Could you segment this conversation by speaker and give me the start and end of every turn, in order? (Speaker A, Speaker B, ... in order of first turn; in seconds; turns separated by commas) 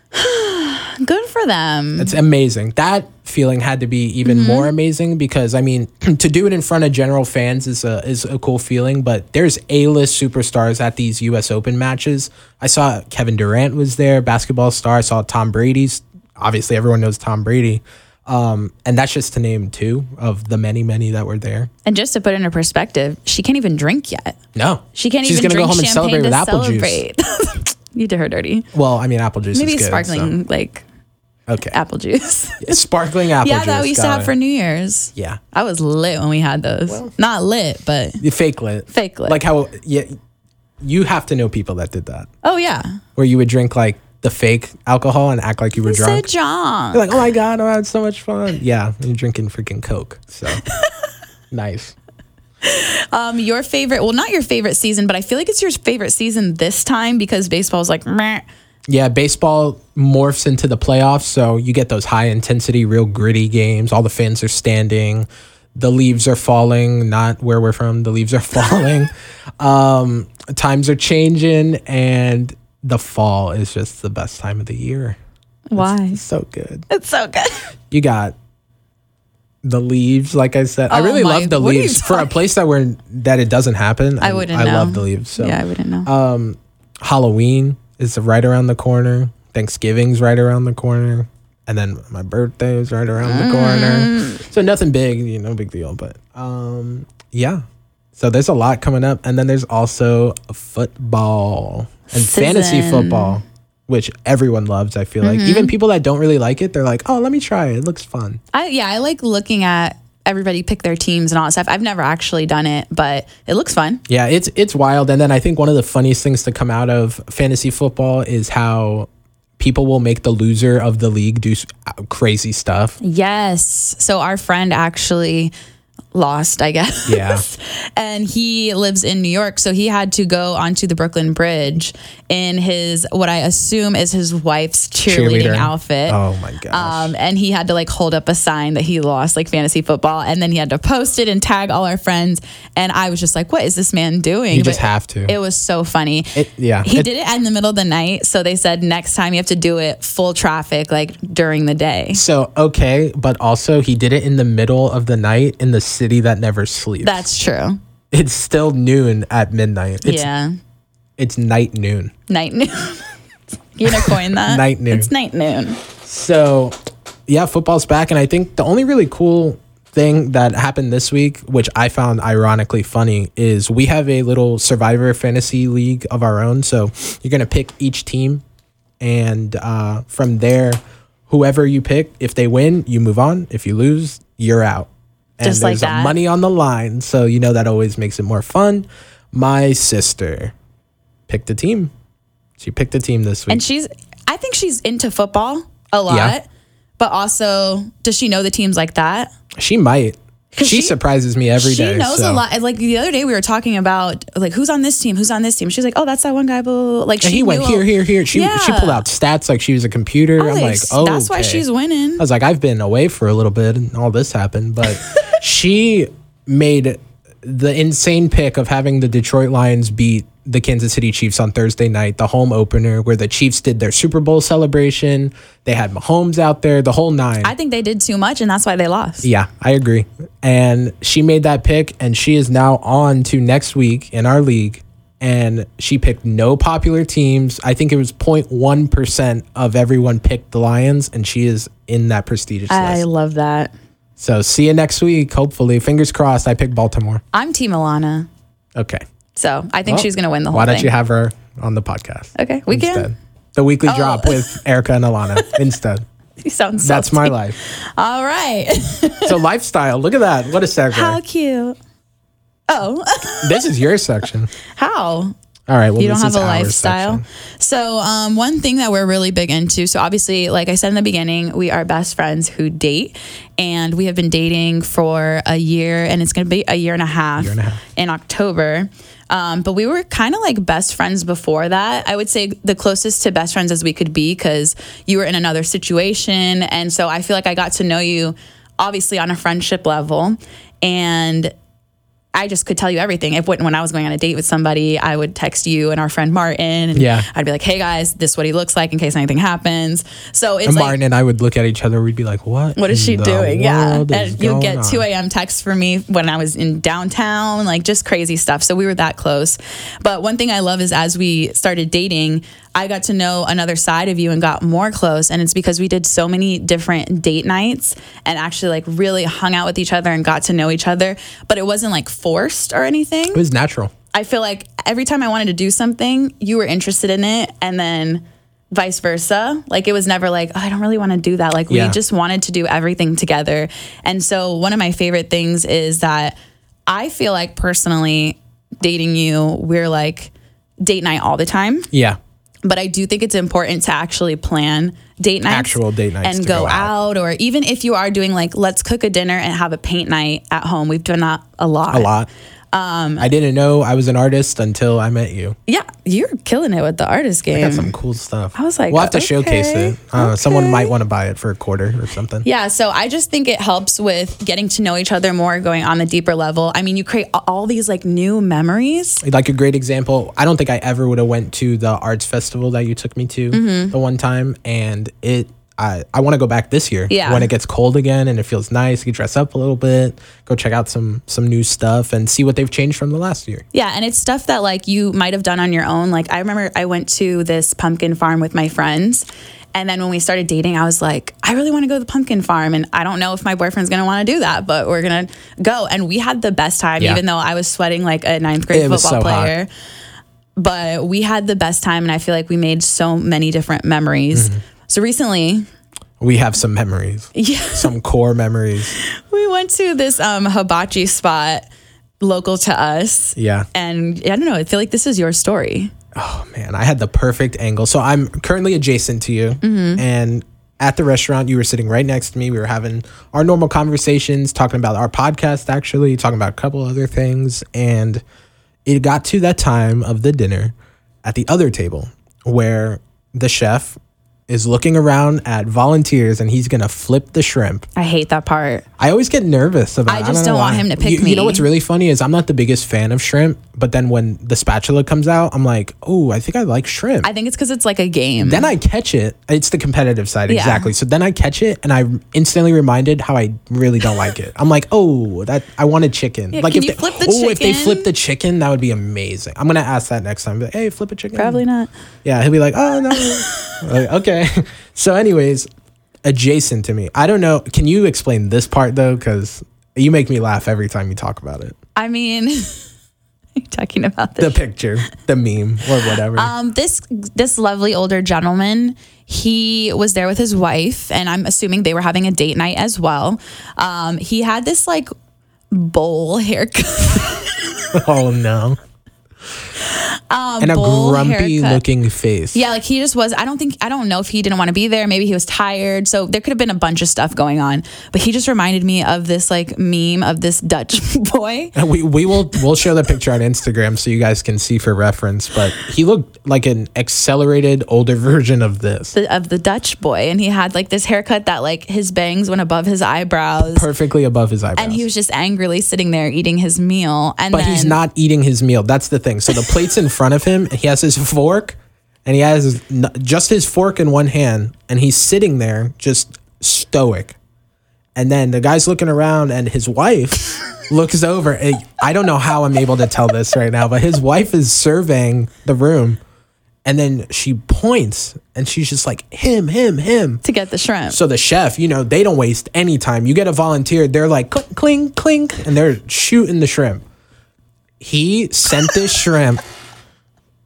Speaker A: 0.1-2.1, Speaker B: 2.0-21.7, Speaker A: 4.2-4.7, Speaker A: 21.9-24.4, Speaker B: 24.5-27.0, Speaker A: 24.9-28.7, Speaker B: 28.7-30.3, Speaker A: 29.5-30.8, Speaker B: 31.5-31.8, Speaker A: 31.7-32.8, Speaker B: 32.6-34.3, Speaker A: 33.4-38.2, Speaker B: 38.2-40.1, Speaker A: 38.9-39.4, Speaker B: 40.8-42.3, Speaker A: 42.4-43.0, Speaker B: 43.1-46.3, Speaker A: 45.8-47.3, Speaker B: 46.9-50.6, Speaker B: 51.5-51.9, Speaker A: 52.6-58.4, Speaker B: 58.9-75.2, Speaker A: 75.7-76.2, Speaker B: 75.8-76.9, Speaker A: 76.9-77.7, Speaker B: 77.9-78.3, Speaker B: 79.6-97.6, Speaker A: 80.9-82.3, Speaker A: 84.2-86.1, Speaker A: 93.2-94.4, Speaker B: 98.2-108.4, Speaker A: 102.1-103.4, Speaker A: 105.2-105.7, Speaker A: 108.5-114.0, Speaker B: 114.1-123.0, Speaker A: 123.0-125.5, Speaker A: 126.1-136.2, Speaker B: 127.1-127.4, Speaker B: 135.1-137.1, Speaker A: 136.7-152.2, Speaker B: 144.5-145.3, Speaker B: 146.3-147.1, Speaker B: 152.1-157.2, Speaker A: 157.0-157.8, Speaker B: 158.1-160.2, Speaker A: 160.0-160.5, Speaker B: 161.2-162.1, Speaker A: 162.3-163.2, Speaker A: 163.8-165.8, Speaker B: 163.8-165.1, Speaker B: 166.0-166.7, Speaker B: 167.3-178.4, Speaker B: 179.0-190.5, Speaker A: 185.4-186.1, Speaker B: 191.3-191.9, Speaker B: 192.6-193.6, Speaker A: 193.5-196.5, Speaker B: 196.1-196.3, Speaker A: 197.0-199.3, Speaker B: 199.6-202.4, Speaker A: 200.5-200.9, Speaker A: 201.6-209.1, Speaker B: 207.2-211.6, Speaker A: 210.4-212.2, Speaker B: 212.2-227.5, Speaker A: 227.4-229.3, Speaker B: 229.2-243.0, Speaker A: 242.7-243.7, Speaker B: 244.2-247.2, Speaker A: 247.3-248.3, Speaker B: 248.8-249.0, Speaker A: 249.3-250.9, Speaker B: 249.9-256.0, Speaker A: 252.3-253.1, Speaker A: 253.8-254.6, Speaker A: 256.4-259.4, Speaker B: 256.8-257.6, Speaker B: 259.2-261.2, Speaker A: 260.9-261.8, Speaker A: 262.7-263.7, Speaker B: 263.4-264.5, Speaker A: 264.6-265.3, Speaker B: 265.7-267.2, Speaker A: 266.0-291.5, Speaker B: 277.4-277.8, Speaker A: 292.3-301.0, Speaker B: 296.9-297.3, Speaker B: 300.6-305.1, Speaker A: 302.8-323.4, Speaker B: 323.3-323.9, Speaker A: 324.1-336.4, Speaker B: 331.7-332.0, Speaker A: 336.9-341.9, Speaker B: 341.9-342.2, Speaker A: 342.6-352.1, Speaker B: 345.5-346.9, Speaker B: 351.9-352.3, Speaker A: 352.7-353.3, Speaker B: 353.2-355.6, Speaker A: 355.7-357.9, Speaker B: 357.5-362.4, Speaker A: 358.5-360.9, Speaker A: 362.4-369.2, Speaker B: 369.2-383.6, Speaker A: 373.5-373.9, Speaker A: 377.1-377.5, Speaker A: 383.7-399.7, Speaker B: 398.7-399.5, Speaker A: 400.6-405.6, Speaker B: 404.3-404.6, Speaker B: 406.2-408.9, Speaker A: 407.3-407.9, Speaker A: 408.9-411.7, Speaker A: 412.2-415.9, Speaker B: 413.4-413.7, Speaker B: 416.1-428.2, Speaker A: 419.6-420.0, Speaker B: 428.9-437.9, Speaker A: 437.9-438.8, Speaker B: 439.0-447.3, Speaker A: 440.1-441.6, Speaker A: 447.2-448.7, Speaker B: 448.4-461.6, Speaker A: 450.5-450.9, Speaker A: 456.5-458.1, Speaker A: 461.3-461.9, Speaker B: 462.2-465.7, Speaker A: 463.1-463.8, Speaker B: 466.2-471.8, Speaker A: 471.9-472.9, Speaker A: 473.6-474.6, Speaker B: 474.4-476.5, Speaker A: 476.3-485.1, Speaker A: 485.7-487.9, Speaker B: 487.9-488.8, Speaker A: 489.8-491.8, Speaker B: 490.6-492.6, Speaker A: 492.5-501.7, Speaker B: 501.7-509.1, Speaker A: 509.1-513.9, Speaker B: 513.7-515.0, Speaker A: 514.8-518.0, Speaker B: 517.5-527.4, Speaker B: 528.1-536.2, Speaker B: 536.8-540.4, Speaker A: 540.4-541.2, Speaker B: 541.1-547.0, Speaker B: 548.0-549.6